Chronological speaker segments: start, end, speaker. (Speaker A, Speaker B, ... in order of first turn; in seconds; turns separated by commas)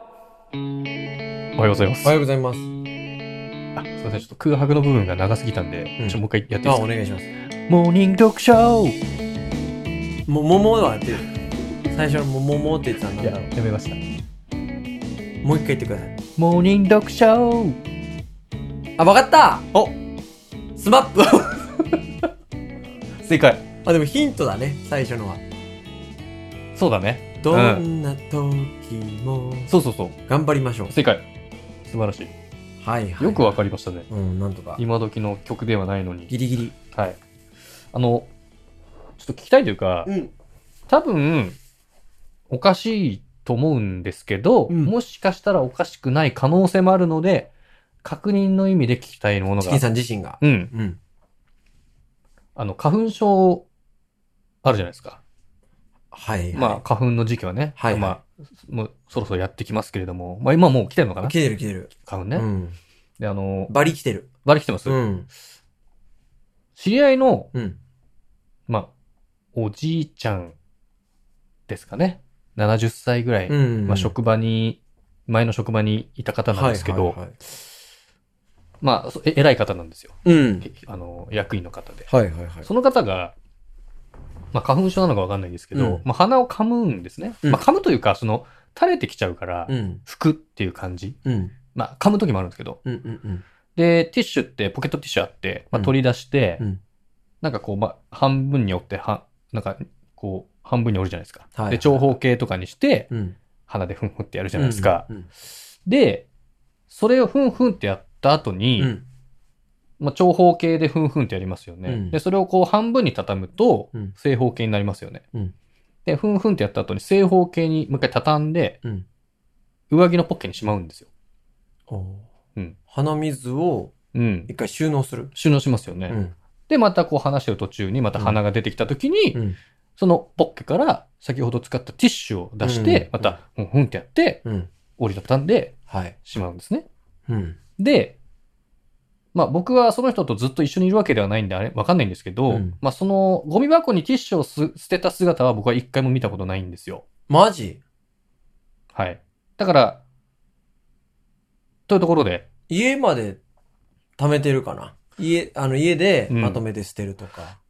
Speaker A: 1.6-2.1, Speaker B: 2.0-2.7, Speaker A: 3.8-6.9, Speaker B: 6.0-7.3, Speaker A: 7.7-9.0, Speaker B: 10.3-11.2, Speaker B: 11.9-13.5, Speaker A: 13.2-14.0, Speaker B: 15.4-16.2, Speaker A: 16.4-17.8, Speaker B: 19.0-19.7, Speaker B: 20.8-21.6, Speaker A: 23.2-23.7, Speaker B: 23.8-25.4, Speaker A: 26.8-27.9, Speaker B: 27.4-29.7, Speaker A: 29.7-30.2, Speaker B: 30.3-30.9, Speaker A: 30.9-31.3, Speaker A: 31.9-32.3, Speaker B: 32.8-33.5, Speaker A: 33.2-34.1, Speaker B: 34.1-34.8, Speaker A: 34.8-36.3, Speaker B: 36.3-36.8, Speaker A: 36.9-37.2, Speaker A: 37.9-38.3, Speaker A: 39.2-40.1, Speaker B: 40.1-40.3, Speaker A: 40.9-41.6, Speaker A: 42.5-47.5, Speaker B: 44.7-44.9, Speaker A: 48.0-49.8, Speaker B: 49.6-51.0, Speaker A: 50.4-50.7, Speaker A: 52.6-53.7, Speaker A: 54.6-55.2, Speaker B: 56.1-56.8, Speaker A: 56.5-61.4, Speaker B: 57.8-58.2, Speaker B: 61.2-62.8, Speaker A: 61.9-62.5, Speaker A: 63.2-63.7, Speaker B: 63.7-64.3, Speaker A: 64.4-65.0, Speaker B: 64.9-65.3, Speaker A: 66.8-67.5, Speaker A: 69.5-70.5, Speaker A: 71.7-77.2, Speaker B: 73.5-74.2, Speaker B: 76.5-77.4, Speaker A: 78.8-82.1, Speaker B: 80.2-80.7, Speaker B: 82.1-82.7, Speaker A: 82.7-83.3, Speaker A: 84.5-91.2, Speaker B: 85.7-86.0, Speaker B: 89.7-90.0, Speaker B: 91.2-91.6, Speaker A: 91.7-92.8, Speaker B: 92.8-93.4, Speaker A: 93.8-96.6, Speaker A: 97.4-103.1, Speaker B: 101.5-102.0, Speaker B: 103.1-103.4, Speaker A: 103.7-105.1, Speaker B: 104.5-105.3, Speaker A: 105.8-106.3, Speaker A: 106.9-108.9, Speaker B: 108.8-109.0, Speaker A: 110.0-115.2, Speaker B: 111.9-112.2, Speaker A: 116.0-118.8, Speaker A: 119.9-121.1, Speaker B: 121.9-122.3, Speaker B: 122.9-124.0, Speaker A: 124.1-124.5, Speaker B: 124.5-125.3, Speaker A: 125.3-126.2, Speaker B: 126.1-126.3, Speaker A: 126.7-129.4, Speaker B: 129.3-129.6, Speaker A: 130.0-134.4, Speaker B: 132.6-133.4, Speaker B: 134.4-134.7, Speaker A: 135.0-136.9, Speaker B: 135.9-136.2, Speaker B: 137.3-137.6, Speaker A: 137.8-138.2, Speaker A: 139.3-147.0, Speaker B: 142.5-142.8, Speaker B: 147.3-147.8, Speaker A: 148.9-150.0, Speaker A: 151.9-152.5, Speaker B: 152.7-153.4, Speaker B: 154.2-157.6, Speaker A: 156.3-156.6